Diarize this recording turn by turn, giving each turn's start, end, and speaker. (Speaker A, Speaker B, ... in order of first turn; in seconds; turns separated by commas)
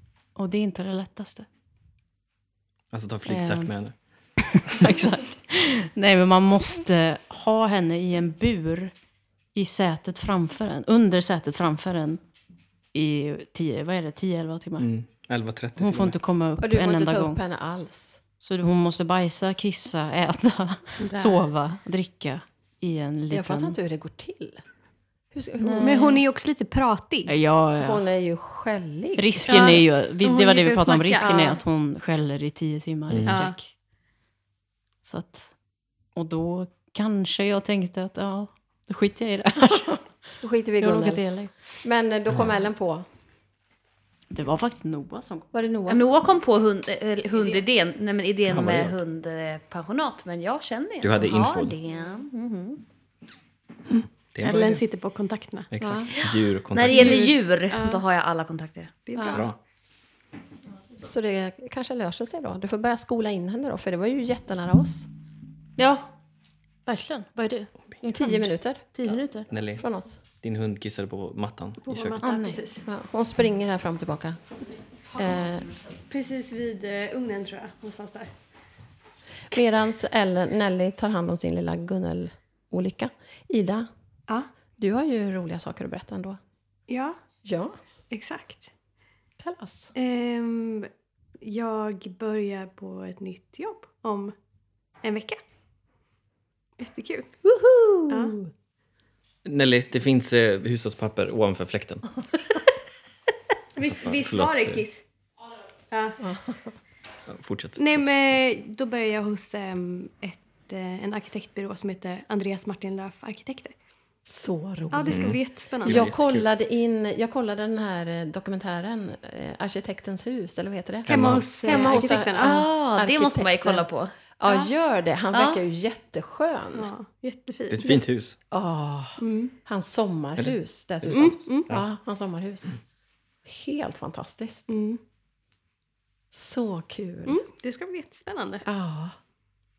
Speaker A: 0.3-1.5, Speaker B: 2.9-3.9, Speaker A: 3.3-3.7, Speaker A: 4.4-8.9, Speaker A: 9.5-12.2, Speaker A: 12.9-14.9, Speaker B: 14.8-16.1, Speaker A: 15.8-17.4, Speaker C: 16.6-18.2, Speaker A: 18.4-23.8, Speaker D: 21.0-21.3, Speaker C: 23.3-24.6, Speaker C: 25.3-26.2, Speaker A: 25.6-26.1, Speaker D: 25.8-27.3, Speaker A: 27.3-28.0, Speaker C: 27.8-29.6, Speaker A: 29.2-33.7, Speaker D: 29.4-31.6, Speaker C: 31.2-31.6, Speaker B: 33.1-33.4, Speaker D: 33.2-33.6, Speaker A: 35.0-35.5, Speaker A: 36.1-40.1, Speaker C: 40.4-41.2, Speaker A: 40.8-41.5, Speaker C: 41.8-43.0, Speaker A: 44.3-45.5, Speaker C: 45.5-46.1, Speaker E: 45.9-52.8, Speaker B: 48.5-49.0, Speaker B: 51.0-51.7, Speaker B: 53.9-54.9, Speaker D: 54.4-55.7, Speaker B: 55.7-57.3, Speaker C: 55.8-56.1, Speaker E: 56.7-59.0, Speaker D: 56.9-58.0, Speaker D: 59.1-59.5, Speaker C: 59.1-59.4, Speaker B: 59.3-59.5, Speaker C: 61.0-65.1, Speaker A: 65.8-66.1, Speaker A: 66.8-69.5, Speaker C: 68.1-68.8, Speaker B: 69.5-72.2, Speaker C: 69.8-70.2, Speaker D: 71.8-72.8, Speaker A: 72.2-72.6, Speaker C: 72.8-74.4, Speaker C: 75.1-75.7, Speaker D: 76.1-78.3, Speaker C: 79.5-83.9, Speaker C: 84.8-86.4, Speaker D: 86.9-87.2, Speaker C: 87.4-87.7, Speaker D: 88.1-88.7, Speaker C: 89.4-89.9, Speaker D: 90.0-94.3, Speaker D: 95.0-95.4, Speaker D: 96.8-97.3, Speaker E: 97.4-98.3, Speaker D: 98.1-98.4, Speaker B: 99.4-102.1, Speaker D: 103.8-105.0, Speaker B: 103.8-104.8, Speaker D: 105.9-106.2, Speaker C: 106.2-106.6, Speaker B: 107.3-108.0, Speaker D: 107.8-113.7, Speaker C: 114.3-123.9, Speaker D: 114.9-116.1, Speaker B: 115.0-116.5, Speaker B: 121.1-122.2, Speaker D: 121.1-122.7, Speaker E: 122.3-124.1, Speaker C: 124.4-126.9, Speaker E: 125.3-125.6, Speaker D: 126.7-128.0, Speaker B: 127.7-128.3, Speaker C: 128.5-132.8, Speaker D: 129.2-129.5, Speaker D: 131.1-131.7, Speaker C: 133.4-134.7, Speaker D: 134.7-135.0, Speaker C: 136.3-137.4, Speaker D: 137.2-138.7, Speaker C: 138.6-139.2